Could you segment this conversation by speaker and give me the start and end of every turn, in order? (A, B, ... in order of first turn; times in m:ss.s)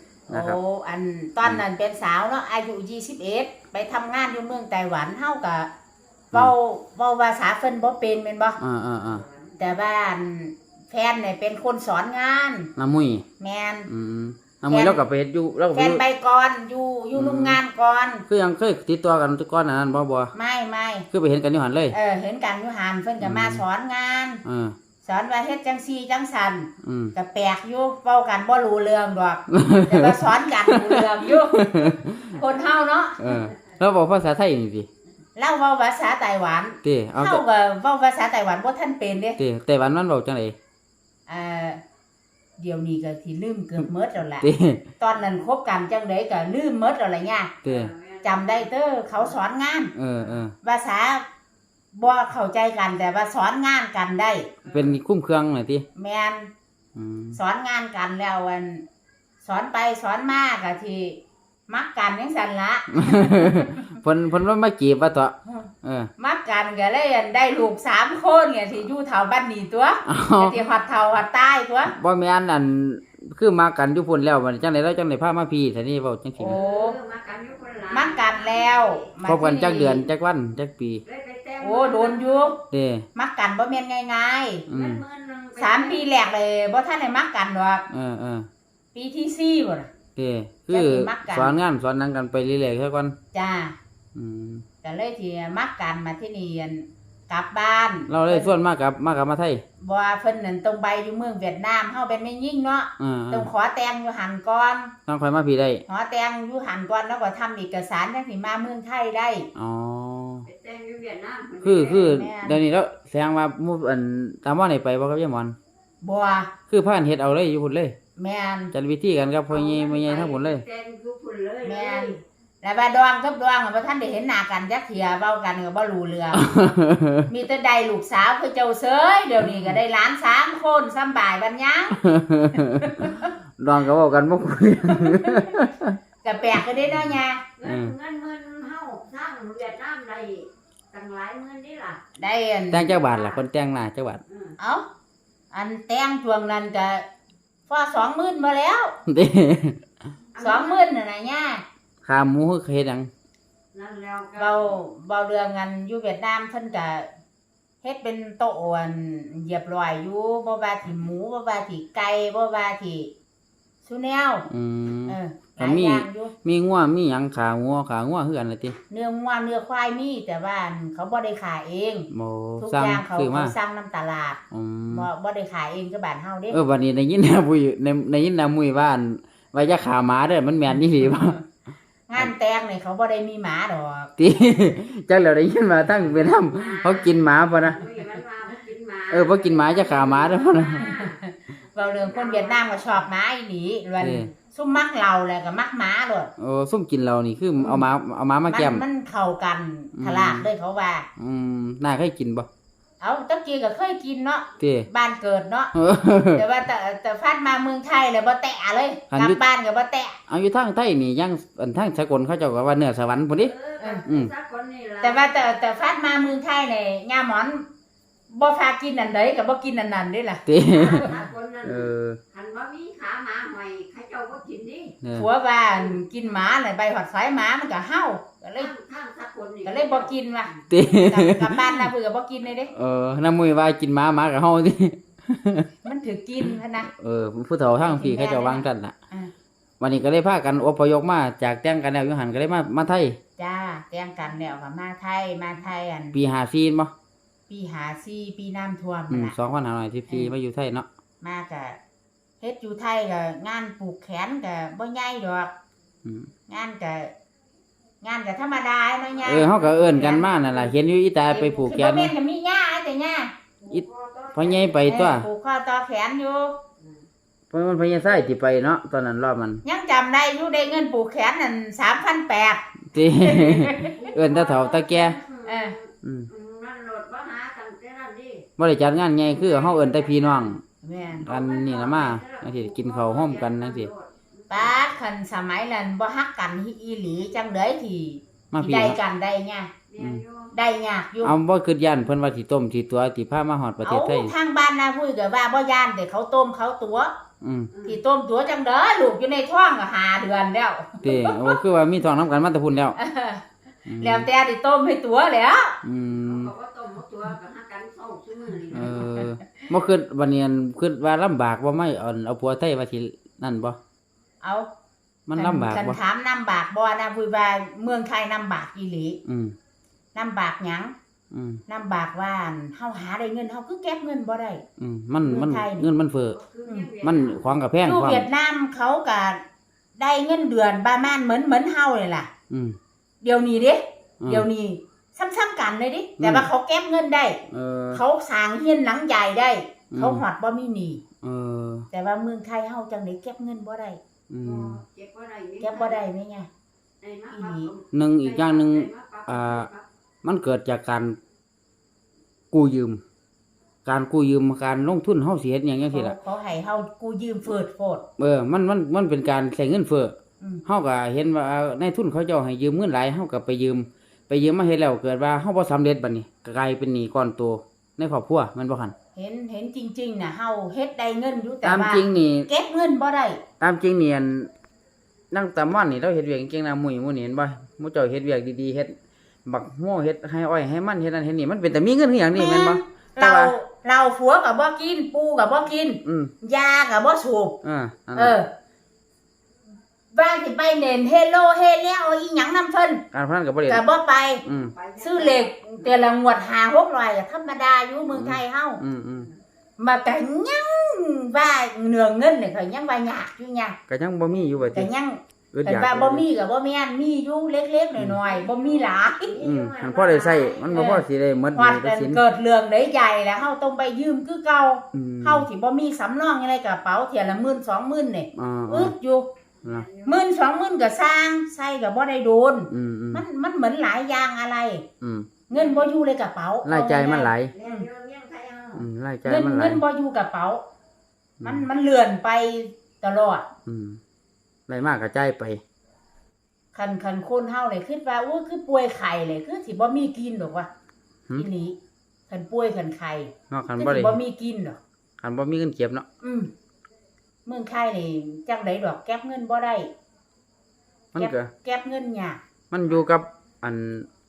0:00.3-0:00.6 A
0:00.3-0:05.7 B
0:06.3-0:08.6 B
0:08.6-0:09.2 A
0:09.1-0:09.6 C
0:09.6-0:12.7 B
0:12.8-0:13.2 A
0:13.4-0:13.9 B
0:13.9-0:16.0 A
0:14.7-0:15.0 B
0:15.7-0:18.3 B
0:17.1-0:17.6 A
0:18.3-0:20.3 A
0:20.3-0:21.1 B
0:21.1-0:22.0 A
0:21.9-0:24.4 B
0:23.2-0:23.6 A
0:24.4-0:24.8 A
0:25.0-0:33.3 B
0:26.8-0:27.1 A
0:29.5-0:32.4 A
0:33.2-0:34.9 A
0:35.4-0:39.4 B
0:36.8-0:37.4 A
0:39.4-0:40.6 A
0:41.3-0:41.8 B
0:42.6-0:44.5 B
0:44.4-0:44.8 A
0:45.0-0:47.6 B
0:47.6-0:47.9 A
0:47.7-0:49.4 C
0:48.2-0:50.0 B
0:50.0-0:50.5 A
0:50.6-0:51.3 B
0:51.9-0:54.5 B
0:54.6-0:55.8 A
0:56.0-0:56.5 B
0:57.0-0:57.4 A
0:57.3-0:58.9 B
0:59.4-1:04.0 B
1:02.9-1:06.1 A
1:06.2-1:11.9 B
1:10.1-1:10.6 A
1:11.9-1:16.6 A
1:16.4-1:17.0 B
1:16.5-1:19.1 C
1:17.9-1:20.1 B
1:19.2-1:21.0 A
1:21.0-1:22.6 C
1:21.6-1:22.6 B
1:22.7-1:23.1 A
1:23.2-1:24.7 B
1:24.7-1:25.0 A
1:24.7-1:26.1 C
1:25.6-1:27.9 B
1:27.9-1:28.5 A
1:29.0-1:29.9 B
1:30.2-1:33.2 A
1:30.7-1:31.5 B
1:33.3-1:33.8 B
1:34.2-1:34.6 A
1:34.8-1:38.6 B
1:38.1-1:39.6 A
1:39.8-1:44.9 B
1:43.0-1:43.5 A
1:45.1-1:45.8 A
1:45.9-1:49.5 B
1:49.6-1:50.5 A
1:50.5-1:52.2 C
1:51.6-1:55.6 A
1:52.1-1:52.6 B
1:56.0-1:56.5 B
1:56.7-1:58.0 A
1:58.2-1:58.7 B
1:58.7-2:00.6 A
1:59.5-2:02.2 C
2:01.6-2:06.5 B
2:06.4-2:07.3 A
2:07.3-2:12.0 B
2:09.4-2:09.8 A
2:12.0-2:16.0 A
2:12.8-2:13.3 B
2:14.9-2:15.5 B
2:16.2-2:17.4 B
2:16.9-2:17.9 A
2:17.6-2:22.0 C
2:22.2-2:23.4 B
2:22.7-2:24.2 A
2:24.3-2:24.6 C
2:24.6-2:24.8 B
2:25.5-2:27.0 B
2:27.7-2:29.0 B
2:29.1-2:29.8 A
2:30.3-2:31.0 C
2:30.4-2:31.6 B
2:32.0-2:33.1 A
2:33.7-2:34.8 C
2:34.4-2:37.1 B
2:37.8-2:43.1 B
2:43.8-2:44.5 B
2:44.5-2:48.8 A
2:45.1-2:46.4 B
2:48.9-2:52.1 B
2:52.1-2:53.6 A
2:52.6-2:56.6 B
2:54.5-2:55.1 A
2:56.5-3:01.4 A
3:02.1-3:04.1 B
3:04.2-3:07.8 A
3:06.5-3:11.2 C
3:09.1-3:10.9 A
3:10.9-3:16.3 B
3:11.7-3:13.1 C
3:14.0-3:14.3 A
3:16.4-3:18.8 A
3:17.6-3:17.9 B
3:18.5-3:21.1 B
3:20.0-3:20.5 A
3:21.2-3:22.5 A
3:23.0-3:25.7 B
3:24.6-3:24.9 A
3:25.8-3:26.4 A
3:26.3-3:30.2 B
3:29.1-3:29.4 A
3:30.3-3:33.5 A
3:33.4-3:35.5 C
3:33.8-3:34.1 B
3:34.1-3:34.3 A
3:35.0-3:37.6 B
3:38.3-3:41.2 B
3:40.5-3:41.1 A
3:40.7-3:45.0 C
3:41.6-3:42.2 A
3:45.0-3:45.3 A
3:45.1-3:48.7 B
3:48.6-3:50.6 C
3:49.6-3:52.7 B
3:50.7-3:51.9 A
3:52.7-3:55.7 A
3:55.8-3:56.9 B
3:56.8-3:59.0 A
3:57.8-3:59.3 B
3:59.8-4:03.2 A
4:03.4-4:06.2 B
4:06.1-4:06.9 A
4:07.5-4:09.4 B
4:09.1-4:10.9 A
4:11.2-4:11.8 B
4:12.4-4:15.5 B
4:16.0-4:16.3 A
4:16.5-4:17.1 B
4:18.0-4:20.6 B
4:19.2-4:22.1 A
4:19.4-4:19.9 C
4:21.3-4:23.3 B
4:23.6-4:24.8 C
4:23.7-4:25.3 A
4:24.8-4:26.6 B
4:27.5-4:29.6 A
4:29.6-4:32.6 B
4:32.9-4:35.2 A
4:33.2-4:34.0 B
4:33.8-4:38.5 C
4:35.4-4:35.8 B
4:36.0-4:36.3 A
4:38.6-4:40.6 A
4:39.2-4:40.5 C
4:40.8-4:41.3 B
4:41.2-4:43.9 A
4:41.2-4:44.8 C
4:44.5-4:49.8 B
4:48.5-4:49.0 A
4:49.9-4:50.6 C
4:50.5-4:51.4 B
4:51.2-4:54.3 A
4:53.8-4:57.1 B
4:57.4-4:57.7 A
4:57.7-4:58.0 C
4:57.9-5:01.6 B
5:01.0-5:03.0 A
5:03.0-5:03.4 B
5:03.9-5:04.3 A
5:04.0-5:05.8 B
5:05.8-5:06.5 A
5:06.0-5:09.1 C
5:08.7-5:13.8 A
5:09.0-5:09.3 B
5:14.4-5:14.7 B
5:15.3-5:16.0 A
5:15.4-5:19.2 B
5:19.3-5:19.6 A
5:20.2-5:20.9 B
5:21.3-5:21.6 A
5:21.7-5:24.6 B
5:24.8-5:26.4 A
5:25.2-5:25.9 B
5:26.4-5:27.5 C
5:26.7-5:26.9 B
5:27.0-5:28.3 A
5:27.8-5:29.4 B
5:30.0-5:32.3 B
5:32.5-5:32.8 A
5:33.2-5:37.4 B
5:34.2-5:34.5 A
5:36.2-5:36.5 A
5:37.5-5:38.0 A
5:37.9-5:41.0 B
5:39.9-5:40.2 A
5:41.2-5:41.9 A
5:41.9-5:44.0 B
5:44.3-5:44.8 A
5:44.4-5:46.0 C
5:45.6-5:46.5 B
5:47.0-5:49.9 C
5:47.3-5:47.7 B
5:47.9-5:49.7 A
5:50.2-5:51.2 A
5:52.5-5:53.0 A
5:53.8-5:56.2 A
5:55.8-5:58.0 B
5:58.2-6:00.2 A
6:00.7-6:08.9 A
6:09.2-6:13.4 B
6:11.6-6:12.5 A
6:13.6-6:14.5 A
6:15.3-6:23.6 A
6:22.3-6:27.6 B
6:26.0-6:26.3 A
6:27.6-6:28.4 A
6:28.2-6:28.5 B
6:30.1-6:33.1 B
6:33.1-6:33.8 A
6:33.7-6:34.5 B
6:34.4-6:34.7 A
6:34.5-6:36.4 C
6:35.0-6:38.8 B
6:38.1-6:39.3 A
6:39.8-6:43.8 B
6:43.9-6:44.9 A
6:44.7-6:49.4 B
6:45.5-6:46.2 A
6:48.2-6:50.8 C
6:49.4-6:52.2 A
6:50.7-6:59.3 B
6:54.9-6:55.5 A
6:58.4-6:58.9 A
6:59.6-7:00.2 C
7:00.0-7:04.8 B
7:02.7-7:03.2 A
7:05.0-7:05.3 A
7:05.5-7:07.9 B
7:05.5-7:05.9 C
7:06.6-7:07.5 A
7:07.5-7:08.9 C
7:08.8-7:09.8 A
7:09.2-7:10.6 B
7:11.4-7:11.7 A
7:11.4-7:13.5 B
7:13.7-7:14.0 A
7:14.7-7:15.6 A
7:16.7-7:20.7 B
7:21.4-7:21.8 B
7:22.3-7:24.8 B
7:23.5-7:24.2 A
7:25.2-7:26.1 A
7:26.2-7:26.5 B
7:27.5-7:29.9 B
7:31.1-7:31.5 A
7:31.2-7:32.4 B
7:32.7-7:34.1 A